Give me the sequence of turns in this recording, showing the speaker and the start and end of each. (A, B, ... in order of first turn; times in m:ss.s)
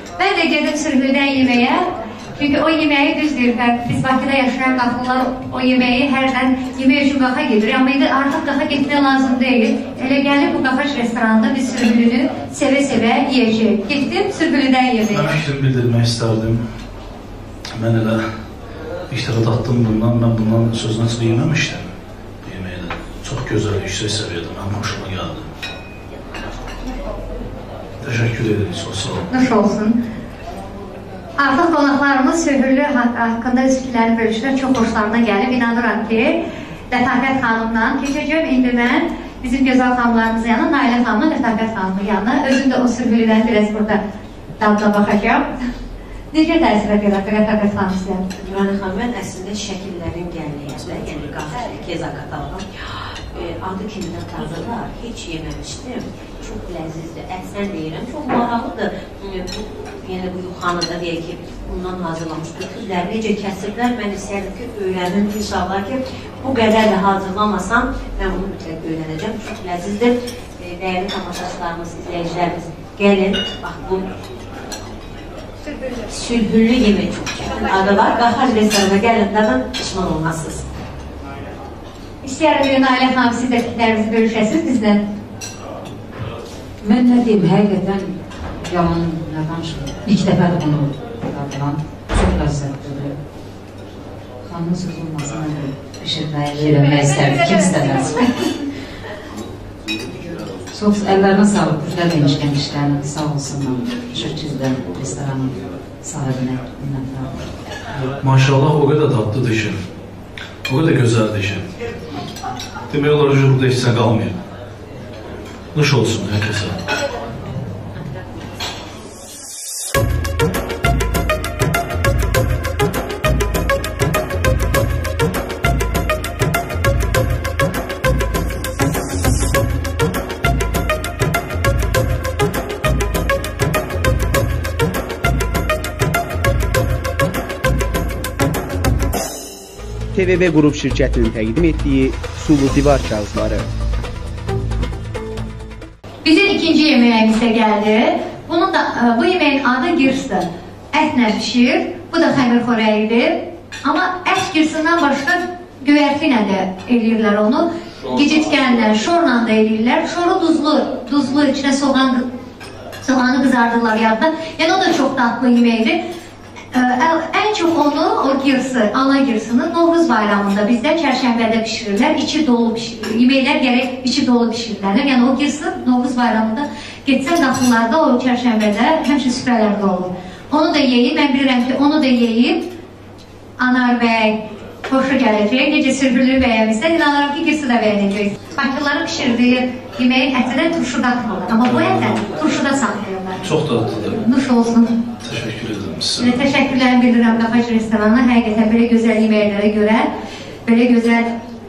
0:00.2-0:15.4 A
0:15.1-0:16.6 B
0:17.8-0:18.2 B
0:19.1-0:21.9 B
0:22.4-0:25.5 B
0:28.0-0:29.3 B
0:29.3-0:30.0 A
0:31.4-0:44.0 A
0:44.6-0:45.5 A
0:46.3-0:48.2 A
0:48.4-0:52.6 C
0:53.3-1:14.1 C
1:16.0-1:20.7 C
1:22.2-1:25.0 A
1:26.8-1:28.1 D
1:28.7-1:33.2 D
1:34.5-1:38.3 D
1:40.7-1:47.5 D
1:48.0-1:49.8 B
1:50.7-1:51.7 B
1:52.9-1:54.4 B
1:55.7-1:56.8 B
2:20.1-2:23.6 E
2:26.2-2:42.2 A
2:43.0-2:46.0 A
2:46.7-3:02.7 A
3:03.6-3:13.4 A
3:13.4-3:14.2 B
3:14.2-3:14.9 A
3:15.2-3:16.5 B
3:16.2-3:20.1 A
3:20.7-3:21.3 A